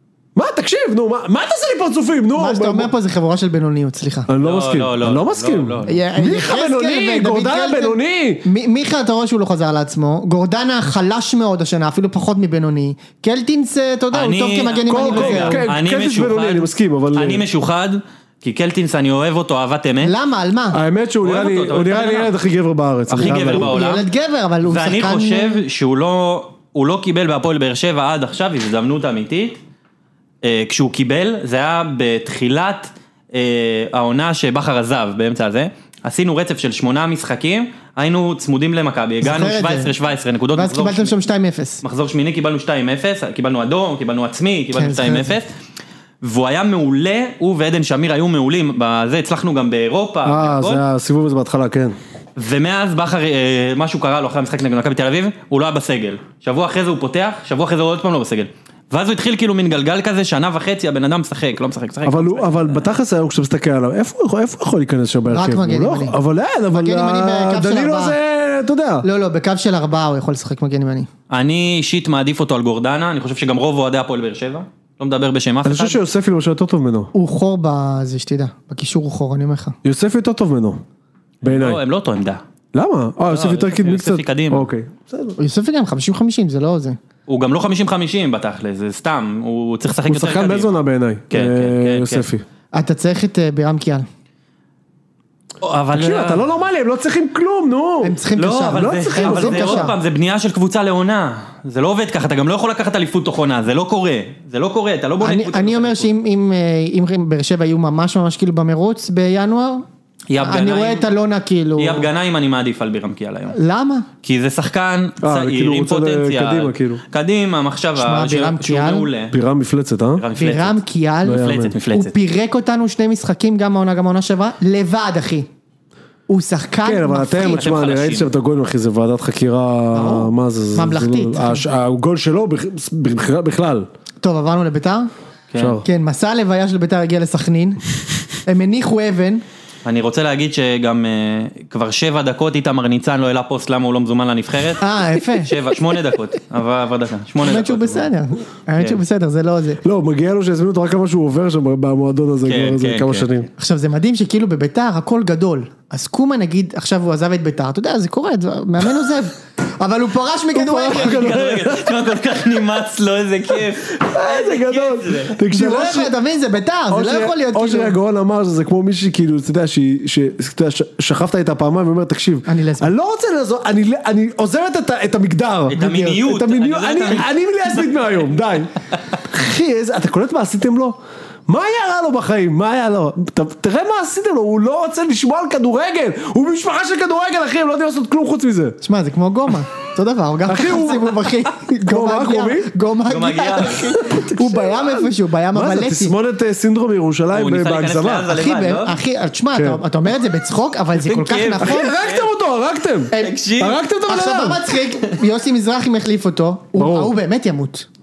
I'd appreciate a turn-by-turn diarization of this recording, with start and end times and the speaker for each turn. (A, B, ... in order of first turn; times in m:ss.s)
0:00.3-0:02.9 A
0:02.4-0:04.3 B
0:04.3-0:08.4 A
0:04.4-0:06.0 C
0:05.9-0:15.7 B
0:14.1-0:20.1 C
0:14.9-0:17.4 A
0:20.0-0:20.8 B
0:20.7-0:23.7 A
0:21.2-0:22.3 C
0:23.1-0:24.0 C
0:23.2-0:25.6 B
0:24.6-0:29.6 C
0:30.4-0:41.1 C
0:39.2-0:39.9 B
0:40.5-0:41.8 B
0:41.8-0:45.5 C
0:44.7-0:45.4 B
0:46.2-0:50.8 C
0:50.2-0:51.9 A
0:52.4-1:02.9 C
1:02.0-1:09.0 A
1:05.3-1:06.2 B
1:06.7-1:08.2 B
1:09.0-1:11.1 B
1:11.3-1:16.0 C
1:15.6-1:17.1 A
1:17.1-1:19.8 B
1:19.8-1:20.8 A
1:21.4-1:21.8 A
1:21.4-1:22.4 C
1:22.7-1:25.4 A
1:23.3-1:24.7 C
1:25.4-1:27.0 B
1:27.3-1:30.8 C
1:30.0-1:32.4 A
1:31.3-1:32.2 C
1:32.7-1:34.0 B
1:35.6-1:36.5 C
1:35.9-1:38.2 A
1:38.0-1:39.9 B
1:38.4-1:46.1 C
1:38.7-1:39.9 A
1:45.2-1:49.8 B
1:50.3-1:51.0 C
1:50.4-1:52.1 B
1:51.8-1:53.6 C
1:53.5-1:54.1 B
1:54.2-1:59.3 C
1:55.2-1:57.0 A
1:58.0-1:59.1 B
1:59.3-2:00.2 A
2:00.2-2:02.1 C
2:00.4-2:05.5 B
2:01.2-2:01.7 A
2:06.3-2:07.7 B
2:06.8-2:13.9 A
2:07.4-2:08.3 C
2:09.9-2:11.6 B
2:14.2-2:15.1 B
2:15.5-2:15.8 C
2:15.6-2:15.8 A
2:15.8-2:17.8 B
2:18.4-2:19.4 B
2:19.8-2:28.1 C
2:24.8-2:25.6 B
2:27.4-2:29.8 B
2:29.8-2:33.5 A
2:32.4-2:33.3 C
2:33.6-2:41.4 B
2:40.5-2:41.9 A
2:40.9-2:45.4 C
2:43.9-2:46.1 A
2:45.5-2:47.9 B
2:46.9-2:58.7 A
2:52.5-2:52.9 B
2:55.7-2:57.8 C
2:59.2-3:08.8 A
3:08.8-3:16.1 B
3:10.4-3:12.7 A
3:13.1-3:14.0 C
3:14.1-3:18.3 A
3:17.3-3:19.0 C
3:18.3-3:21.9 B
3:19.5-3:19.8 A
3:20.9-3:22.3 C
3:21.6-3:24.6 A
3:23.2-3:23.8 C
3:24.1-3:27.8 B
3:26.8-3:27.1 A